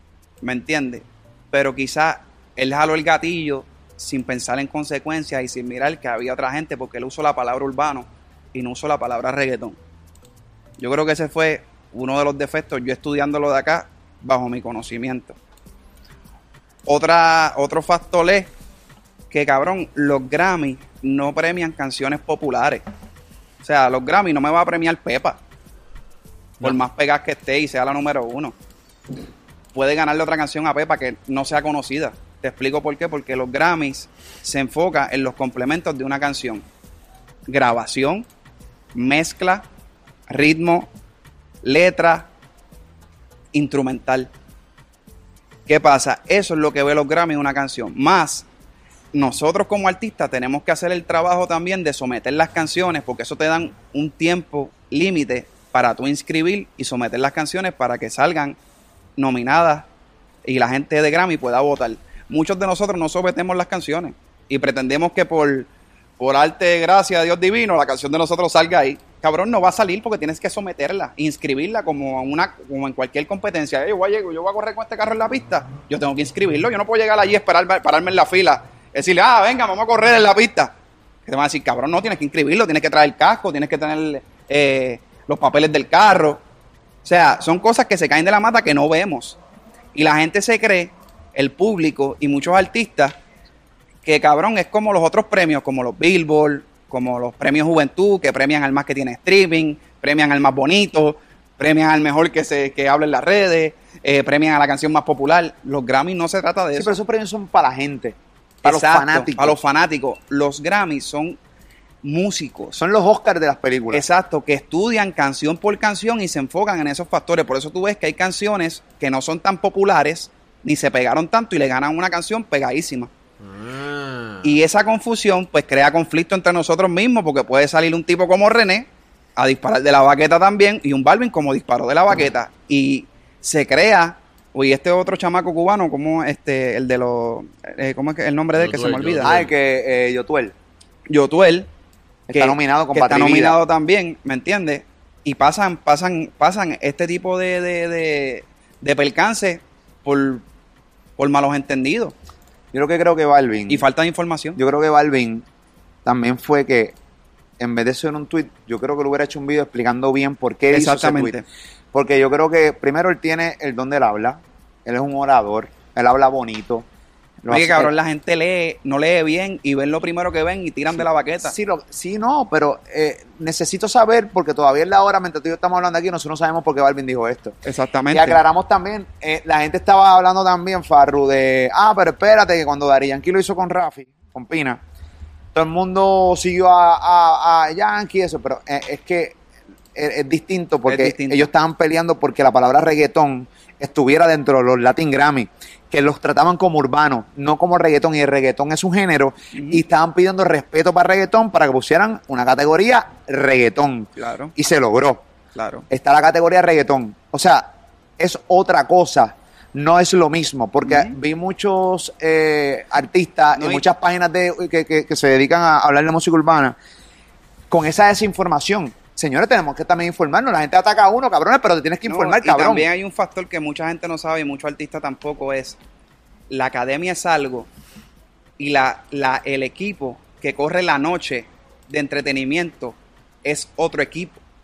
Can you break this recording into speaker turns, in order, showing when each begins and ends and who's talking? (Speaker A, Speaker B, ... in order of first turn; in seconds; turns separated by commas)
Speaker A: 0.4-9.8, Speaker A: 10.8-15.4, Speaker A: 16.9-18.5, Speaker A: 19.3-22.9, Speaker A: 23.6-25.4, Speaker A: 26.6-28.5, Speaker A: 29.7-36.6, Speaker A: 37.5-38.3, Speaker A: 39.0-39.7, Speaker A: 40.3-40.9, Speaker A: 41.6-42.3, Speaker A: 43.5-44.3, Speaker A: 45.7-48.5, Speaker A: 49.1-58.6, Speaker A: 59.2-59.9, Speaker A: 60.5-65.7, Speaker A: 66.2-80.7, Speaker A: 81.3-86.4, Speaker A: 87.0-89.4, Speaker A: 90.0-93.2, Speaker A: 94.0-107.0, Speaker B: 106.8-109.6, Speaker A: 108.6-111.4, Speaker A: 112.0-112.8, Speaker B: 112.8-114.1, Speaker A: 113.9-123.1, Speaker C: 123.4-124.6, Speaker A: 124.4-139.3, Speaker C: 138.6-139.5, Speaker B: 139.2-140.5, Speaker A: 141.1-141.7, Speaker B: 142.3-143.6, Speaker A: 142.3-150.4, Speaker A: 151.2-152.1, Speaker B: 152.7-153.8, Speaker A: 153.7-154.6, Speaker B: 154.6-155.4, Speaker B: 156.1-157.0, Speaker B: 157.6-161.4, Speaker A: 160.7-161.4, Speaker B: 161.9-166.9, Speaker B: 167.4-167.9, Speaker A: 167.5-171.6, Speaker B: 170.9-177.6, Speaker A: 177.7-178.4, Speaker B: 178.1-184.8, Speaker B: 185.5-189.4, Speaker B: 189.9-205.2, Speaker A: 190.9-191.5, Speaker A: 199.5-199.8, Speaker A: 204.2-204.5, Speaker A: 205.6-205.9, Speaker B: 205.9-216.8, Speaker A: 210.8-211.2, Speaker A: 213.6-213.8, Speaker B: 217.7-222.9, Speaker A: 222.1-225.8, Speaker A: 226.5-227.7, Speaker A: 228.6-234.4